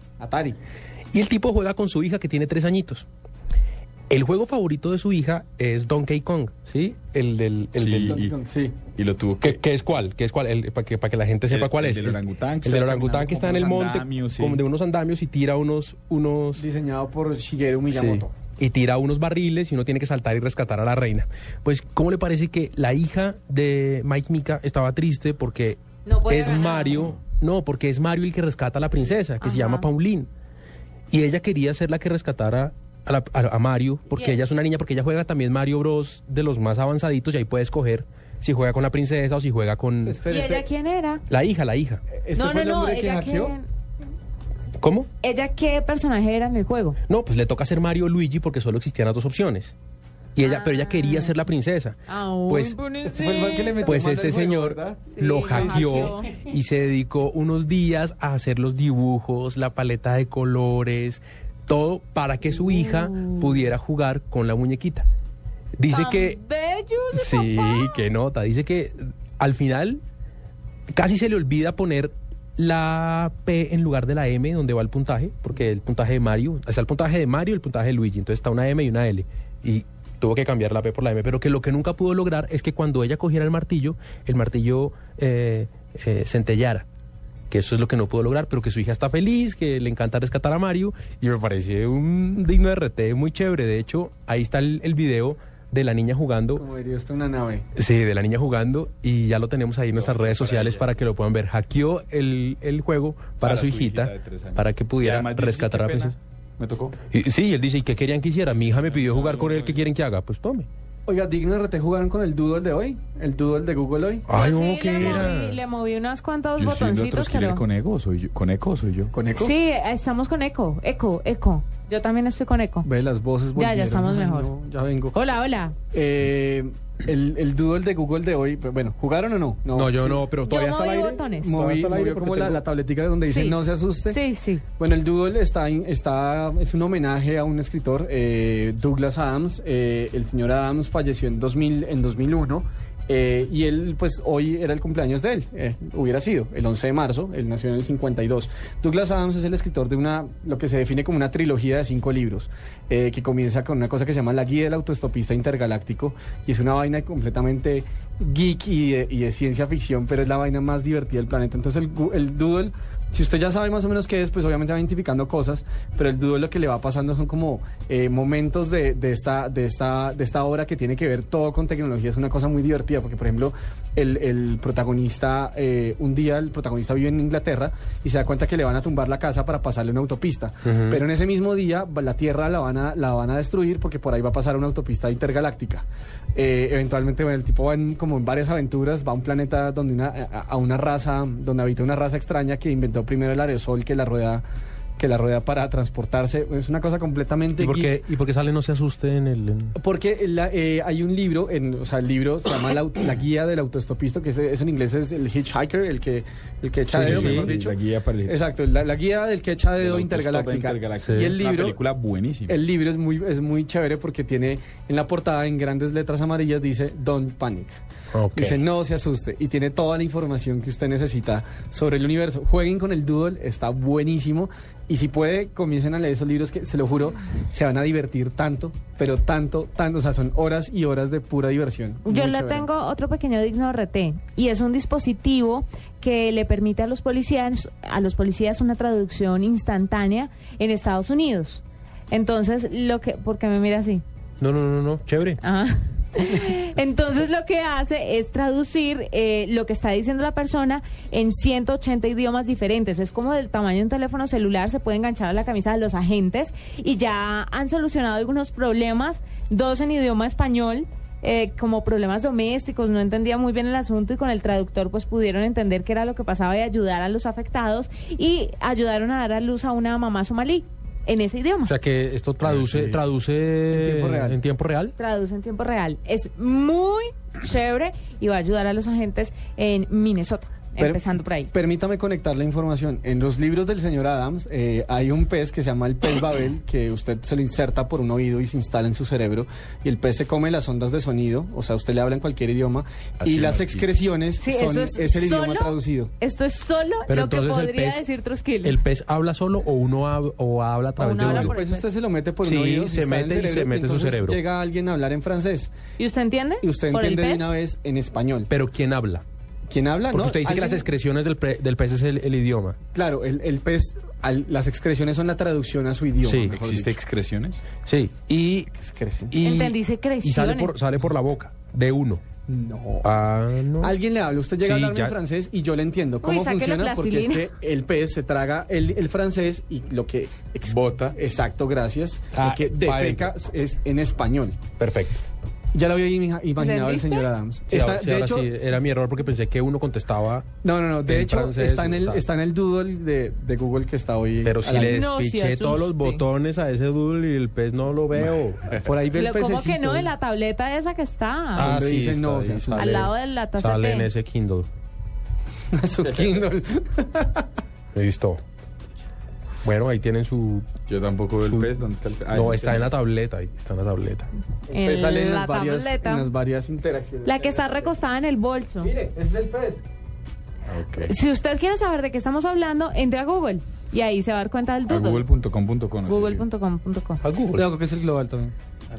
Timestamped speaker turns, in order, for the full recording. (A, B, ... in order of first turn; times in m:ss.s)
0:00.2-0:00.6 A
0:01.1-0:03.1 B
0:04.1-0:08.2 B
0:07.8-0:08.3 C
0:08.1-0:08.8 A
0:08.9-0:09.6 C
0:09.4-0:16.6 B
0:11.5-0:14.6 C
0:16.6-0:18.3 A
0:17.9-0:30.3 B
0:26.1-0:27.1 D
0:29.4-0:29.9 D
0:31.1-0:40.2 B
0:34.1-0:34.4 D
0:40.0-0:40.7 A
0:40.3-0:41.2 D
0:41.3-0:42.0 B
0:42.1-0:43.6 A
0:42.4-0:43.7 D
0:44.8-0:45.1 B
0:45.2-0:47.0 D
0:47.1-0:49.8 B
0:50.4-0:52.0 B
0:50.4-0:51.4 D
0:52.1-0:54.0 D
0:52.5-0:52.8 B
0:53.0-0:56.1 A
0:53.9-1:05.1 B
0:55.1-0:56.4 D
1:02.6-1:03.7 D
1:05.8-1:06.4 B
1:05.9-1:08.1 D
1:07.1-1:10.0 B
1:10.9-1:26.9 B
1:27.5-1:36.6 B
1:36.6-1:37.7 A
1:37.8-1:46.2 B
1:39.9-1:41.0 C
1:43.4-1:47.0 C
1:47.1-1:50.7 B
1:48.6-1:49.9 C
1:51.1-1:54.3 A
1:54.3-1:55.6 B
1:54.3-1:57.6 D
1:55.0-1:55.3 C
1:56.6-1:59.1 C
1:59.1-1:59.5 A
1:59.4-2:02.9 D
2:02.8-2:05.2 A
2:03.6-2:04.5 D
2:05.1-2:05.8 D
2:05.9-2:14.2 A
2:09.7-2:10.6 B
2:10.5-2:11.6 D
2:11.7-2:12.5 B
2:13.3-2:14.6 D
2:14.8-3:14.4 A
3:00.7-3:01.0 B
3:15.0-3:17.9 A
3:17.6-3:19.8 B
3:19.8-3:31.8 A
3:26.9-3:27.5 B
3:27.0-3:28.4 C
3:29.8-3:32.6 C
3:31.0-3:31.4 B
3:32.5-3:37.8 A
3:38.1-3:38.6 B
3:38.4-3:52.7 A
3:52.0-4:04.0 D
4:04.4-4:05.4 B
4:05.4-4:31.7 D
4:31.7-4:35.0 B
4:32.5-4:32.9 C
4:33.7-4:34.4 A
4:35.0-4:41.5 D
4:40.8-4:56.1 A
4:53.2-4:53.8 C
4:54.4-4:58.8 D
4:57.1-4:58.0 B
4:58.6-5:01.6 B
5:01.0-5:01.8 D
5:01.2-5:05.7 A
5:02.4-5:04.4 B
5:06.0-5:07.5 D
5:06.6-5:08.5 A
5:08.5-5:09.2 B
5:09.7-5:10.9 A
5:10.1-5:12.8 B
5:13.0-5:16.6 A
5:16.2-5:16.9 B
5:16.4-5:17.6 C
5:17.8-5:18.7 B
5:18.8-5:19.4 A
5:19.3-5:22.2 B
5:19.4-5:20.7 D
5:22.5-5:23.1 A
5:23.0-5:24.0 B
5:23.8-5:34.6 A
5:24.6-5:25.2 B
5:26.2-5:27.5 D
5:30.7-5:31.1 C
5:32.3-5:33.3 B
5:34.8-5:35.2 B
5:35.7-5:38.5 A
5:36.6-5:37.3 D
5:37.7-5:40.5 B
5:40.6-5:45.0 A
5:41.1-5:42.2 B
5:44.4-5:48.8 B
5:44.8-5:46.2 D
5:48.7-5:50.1 A
5:49.1-5:51.8 D
5:51.6-5:54.7 B
5:51.6-5:53.1 A
5:52.8-5:54.1 D
5:55.7-5:57.5 A
5:58.0-5:58.4 B
5:59.6-6:00.7 B
6:00.9-6:03.0 C
6:01.4-6:01.7 B
6:02.3-6:04.3 B
6:04.7-6:06.3 D
6:04.7-6:07.9 A
6:07.2-6:08.9 D
6:08.8-6:09.8 A
6:10.7-6:11.1 C
6:11.0-6:15.3 D
6:14.9-6:16.4 C
6:16.1-6:17.2 D
6:17.2-6:17.7 B
6:17.5-6:18.5 A